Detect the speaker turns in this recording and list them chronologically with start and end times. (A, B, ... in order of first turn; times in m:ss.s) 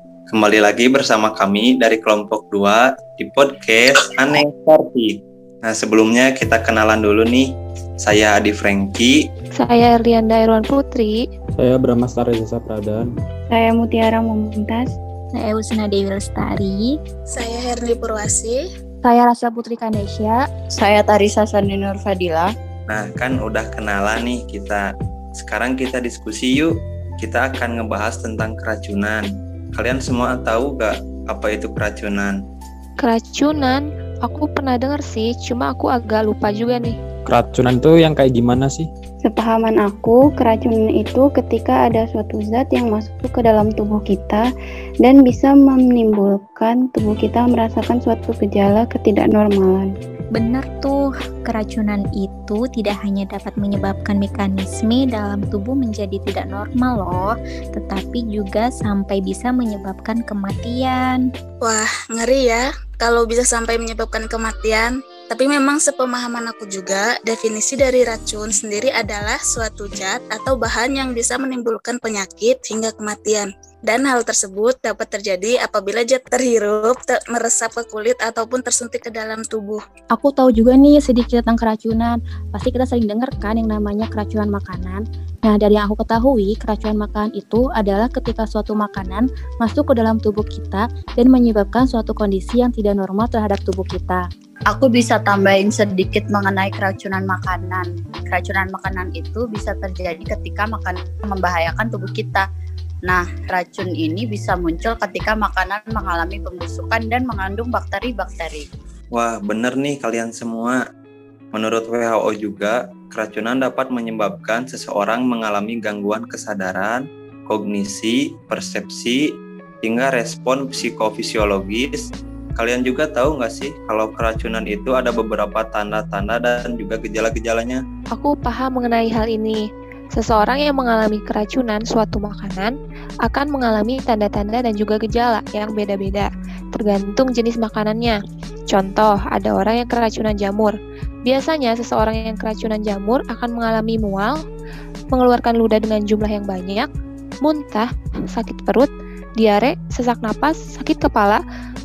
0:00.3-0:07.5 A
0:08.0-0:09.2 A
0:09.6-0:11.2 B
0:11.6-0:13.1 C
0:13.5-0:14.9 D
0:15.3-0:17.0 E
0:17.3-0:18.6 F
0:19.0-0:20.4 G
0:20.8-0:22.5 H
0:22.9-0:24.8 A
0:25.4-0:32.4 A
0:33.0-0:37.0 B
0:37.2-0:38.9 C
0:39.2-0:44.5 D
0:45.0-0:49.9 D
0:50.3-1:01.2 E
1:01.6-1:19.8 F
1:20.1-1:34.2 G
1:34.7-1:42.4 H
1:43.1-1:48.7 H
1:49.1-1:50.8 A
1:51.5-1:59.2 A
1:59.8-2:07.8 A
2:08.1-2:18.2 B
2:18.7-2:20.7 B
2:21.2-2:24.4 B
2:25.1-2:26.9 B
2:27.4-2:31.4 B